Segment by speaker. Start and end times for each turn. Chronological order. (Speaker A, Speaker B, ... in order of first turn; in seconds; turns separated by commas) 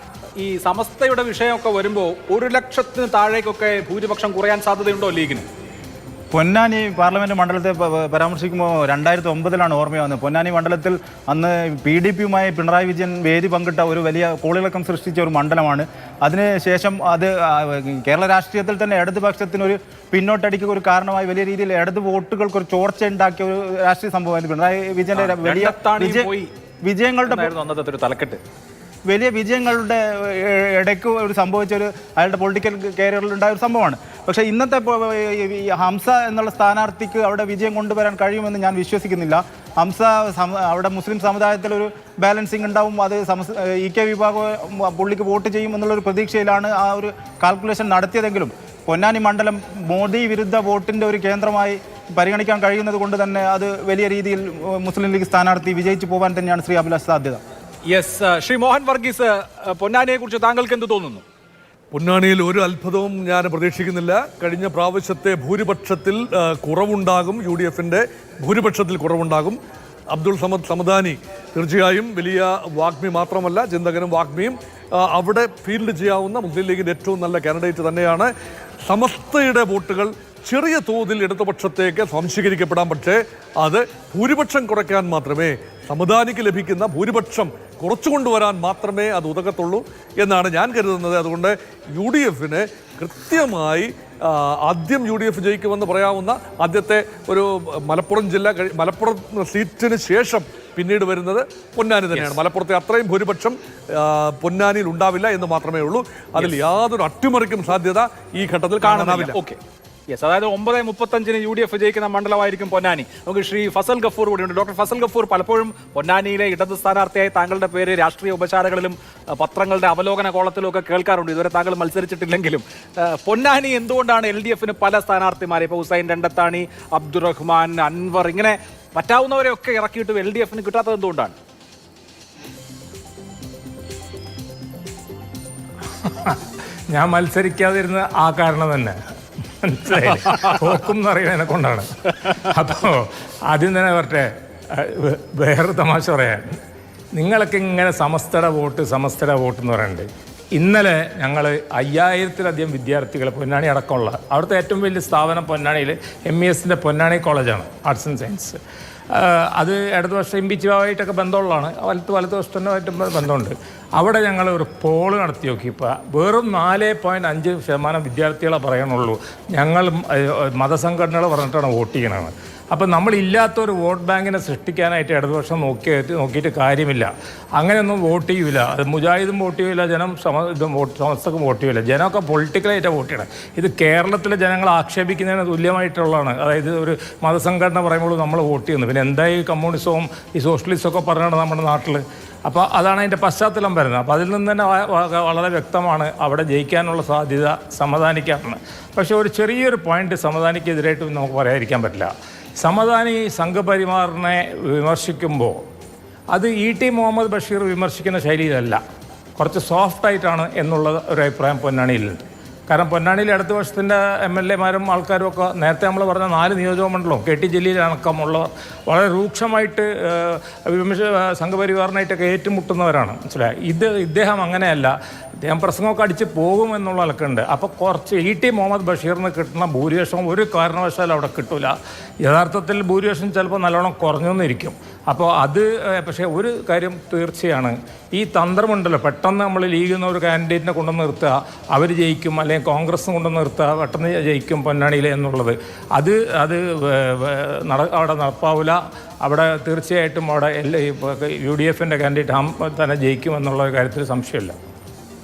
Speaker A: 0.4-5.5, Speaker B: 6.3-26.3, Speaker A: 25.2-26.5, Speaker B: 26.8-27.5, Speaker A: 27.3-28.4, Speaker B: 29.1-57.4, Speaker A: 57.9-61.2, Speaker C: 61.9-69.6, Speaker C: 70.1-78.3, Speaker C: 78.9-109.4, Speaker A: 102.1-102.4, Speaker A: 108.8-109.6, Speaker A: 110.1-131.3, Speaker D: 136.0-136.4, Speaker D: 136.9-139.0, Speaker D: 139.6-146.6, Speaker D: 147.2-158.6, Speaker D: 159.1-202.1, Speaker D: 202.6-205.6, Speaker D: 206.3-208.8, Speaker D: 209.4-254.6